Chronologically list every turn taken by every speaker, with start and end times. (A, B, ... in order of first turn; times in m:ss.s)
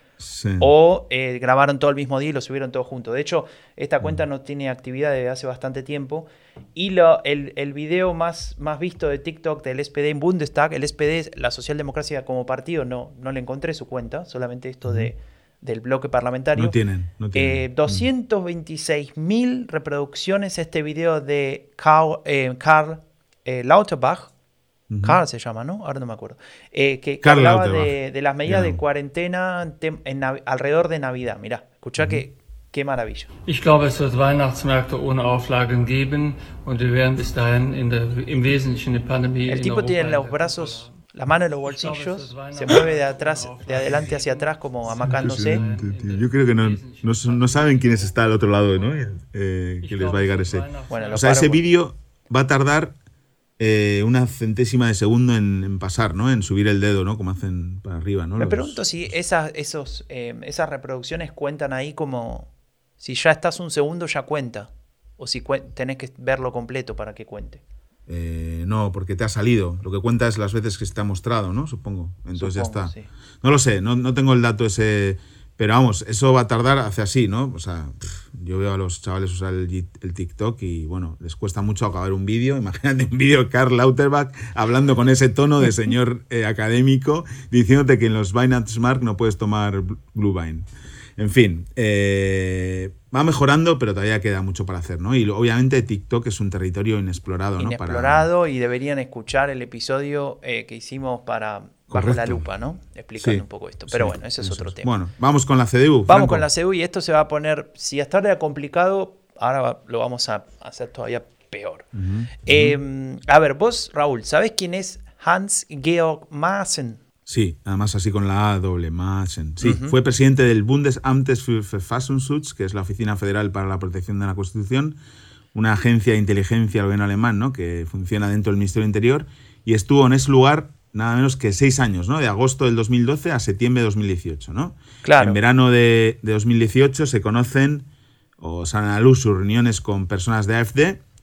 0:00.2-0:00.7 A
0:00.6-0:16.8 B
0:14.8-0:15.1 A
0:16.6-0:18.1 A
0:17.3-0:24.3 B
0:24.9-0:25.2 A
0:25.0-0:33.3 B
0:27.2-0:28.8 A
0:32.0-0:32.2 A
0:33.5-0:41.0 C
0:39.5-0:45.6 B
0:41.6-0:49.1 C
0:45.0-0:53.0 A
0:49.8-0:51.6 C
0:50.9-0:51.6 B
0:53.6-0:58.8 A
0:58.4-1:07.6 B
1:08.1-1:38.3 A
1:12.3-1:13.1 B
1:37.6-1:44.9 B
1:41.9-1:42.5 A
1:43.2-1:46.5 A
1:46.1-1:51.9 B
1:51.9-1:52.8 A
1:52.4-1:57.0 B
1:57.3-2:05.0 A
1:59.6-1:59.9 B
2:05.5-2:17.9 A
2:15.0-2:15.4 B
2:18.4-2:21.0 A